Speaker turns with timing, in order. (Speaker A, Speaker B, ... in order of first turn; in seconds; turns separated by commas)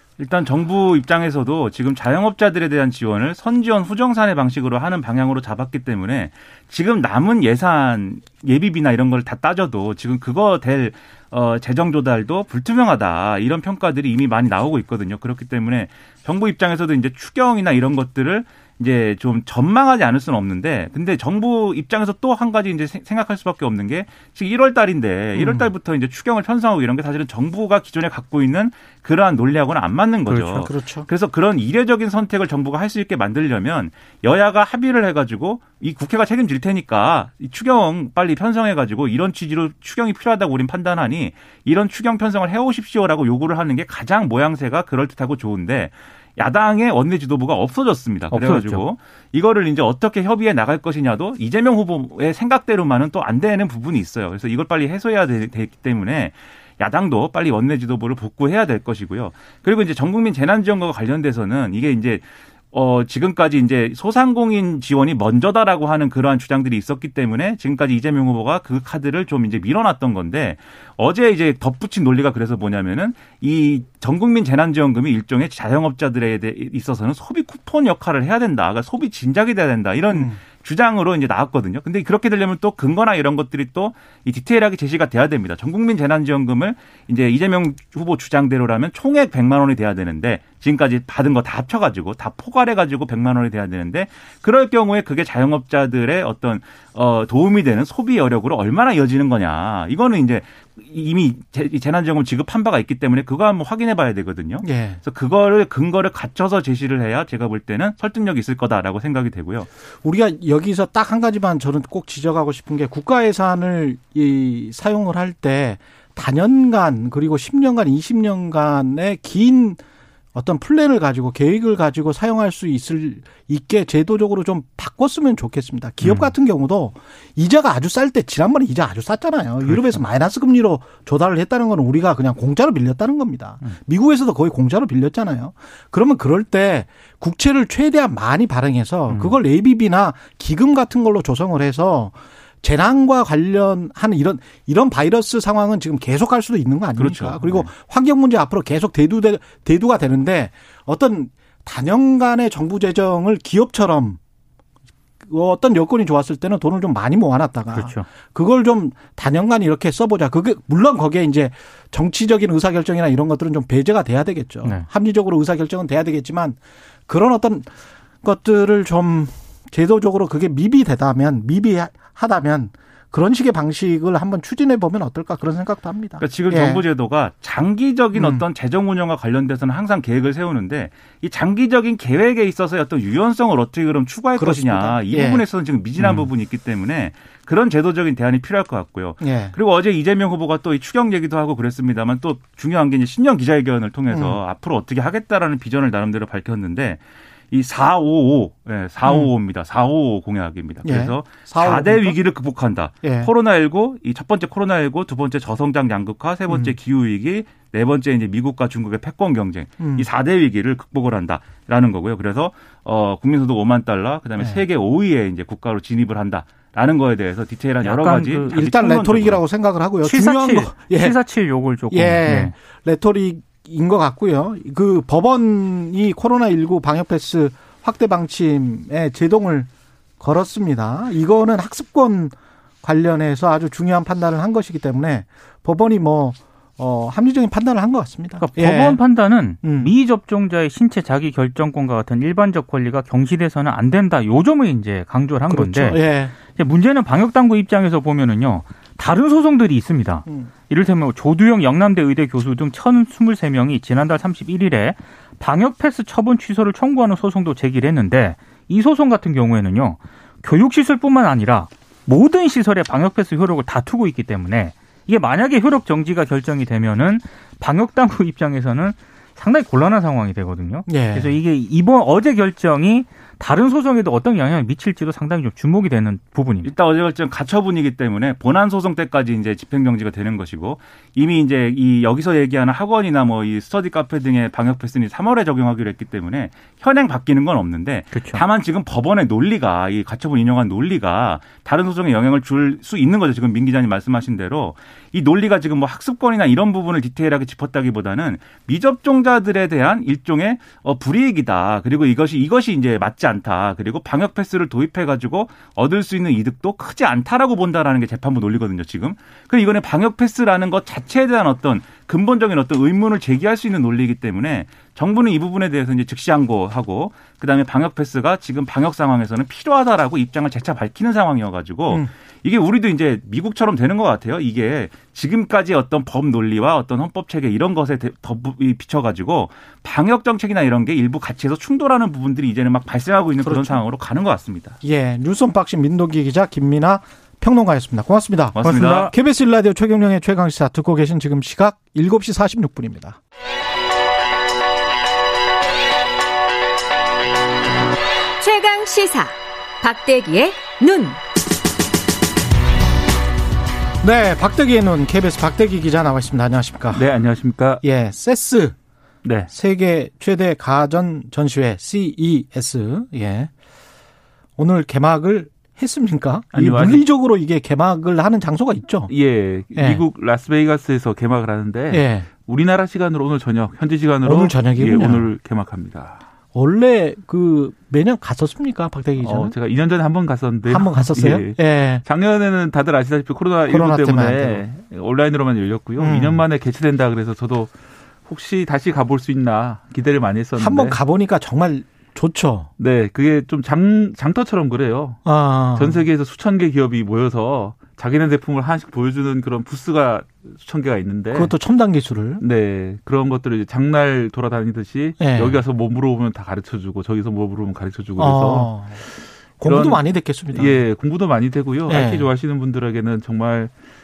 Speaker A: 0.2-109.7, Speaker B: 25.4-25.7, Speaker C: 30.3-30.7, Speaker B: 30.6-31.1, Speaker C: 48.3-48.8, Speaker B: 104.6-105.0, Speaker B: 110.0-119.8, Speaker B: 120.3-154.2, Speaker C: 126.0-126.3, Speaker C: 129.7-130.0, Speaker C: 139.1-139.4, Speaker A: 147.0-147.7, Speaker B: 155.2-167.7, Speaker C: 157.7-158.1, Speaker B: 168.2-176.8, Speaker A: 176.2-197.0, Speaker B: 178.2-178.4, Speaker B: 184.4-185.4, Speaker B: 186.0-186.3, Speaker B: 189.2-189.6, Speaker B: 194.1-194.4, Speaker A: 197.5-219.4, Speaker B: 199.0-199.3, Speaker B: 200.8-202.2, Speaker B: 203.0-203.3, Speaker B: 206.5-206.7, Speaker B: 209.8-210.1, Speaker C: 217.8-218.5, Speaker B: 218.5-221.2, Speaker C: 220.0-222.5, Speaker B: 221.9-239.9, Speaker C: 238.4-276.7, Speaker B: 245.5-246.3, Speaker B: 250.3-250.5, Speaker B: 270.9-271.4, Speaker A: 276.6-334.8, Speaker C: 288.1-288.4, Speaker B: 333.4-333.8, Speaker B: 334.8-343.2, Speaker A: 338.6-339.1, Speaker C: 338.6-339.1, Speaker D: 348.4-351.2, Speaker B: 354.0-357.0, Speaker E: 356.9-357.8, Speaker B: 357.8-358.8, Speaker E: 359.2-359.5, Speaker B: 359.5-363.5, Speaker B: 364.6-369.1, Speaker E: 366.5-367.0, Speaker E: 369.1-376.2, Speaker B: 369.8-370.0, Speaker B: 371.9-372.3, Speaker B: 374.2-375.3, Speaker B: 376.5-379.6, Speaker E: 379.2-387.7, Speaker B: 380.7-382.0, Speaker B: 383.7-384.6, Speaker B: 386.0-386.4, Speaker E: 388.2-391.0, Speaker B: 390.6-392.7, Speaker E: 392.8-395.2, Speaker B: 395.2-396.1, Speaker E: 395.8-401.6, Speaker B: 401.3-402.4, Speaker E: 402.4-408.7, Speaker B: 405.2-405.6, Speaker B: 408.2-409.1, Speaker B: 409.6-410.8, Speaker E: 409.6-413.7, Speaker B: 411.9-412.3